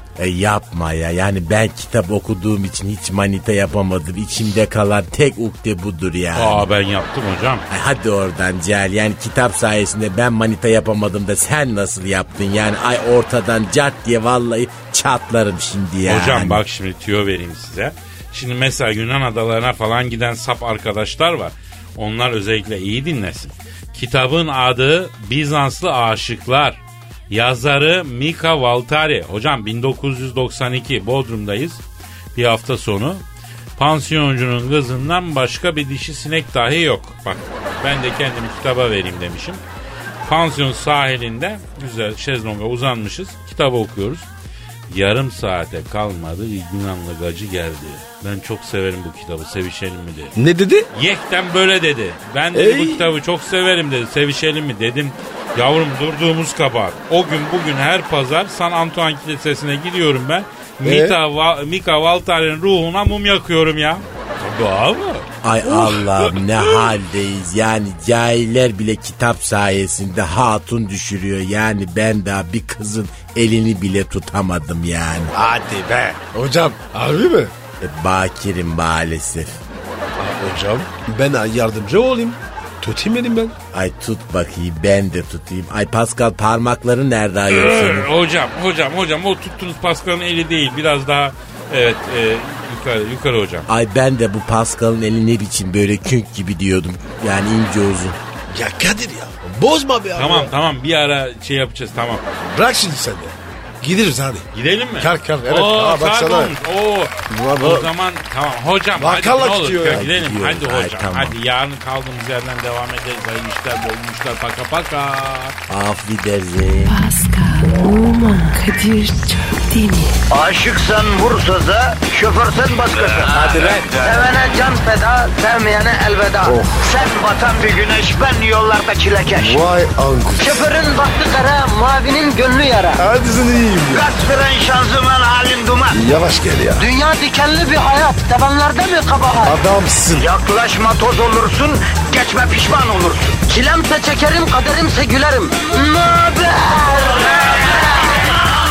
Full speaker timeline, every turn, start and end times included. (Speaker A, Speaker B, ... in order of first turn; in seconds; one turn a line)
Speaker A: 0.2-6.7
Speaker B: 6.3-7.7
Speaker A: 7.7-16.6
Speaker B: 16.1-31.8
Speaker B: 32.3-33.2
Speaker B: 33.8-39.6
Speaker B: 40.2-44.3
Speaker B: 44.9-50.3
Speaker C: 50.4-50.9
Speaker B: 50.9-65.3
Speaker C: 52.5-53.1
Speaker C: 60.8-61.2
Speaker A: 65.4-75.3
Speaker C: 65.6-66.9
Speaker C: 75.3-77.5
Speaker A: 77.8-79.6
Speaker C: 80.2-83.6
Speaker A: 83.7-88.1
Speaker B: 87.5-93.7
Speaker A: 93.7-98.2
Speaker C: 98.5-100.5
Speaker B: 100.1-102.2
Speaker C: 102.4-106.5
Speaker B: 104.5-115.5
Speaker C: 107.3-107.9
Speaker C: 109.0-110.0
Speaker A: 109.8-111.4
Speaker A: 115.7-117.0
Speaker D: 116.8-120.2
Speaker E: 120.3-129.7
Speaker C: 123.4-124.0
Speaker C: 126.4-126.8
Speaker C: 129.3-130.6
Speaker E: 130.4-133.1
Speaker C: 133.0-134.1
Speaker E: 133.9-136.0
Speaker C: 135.9-136.9
Speaker E: 136.7-139.6
Speaker C: 139.4-140.3
Speaker E: 140.2-148.3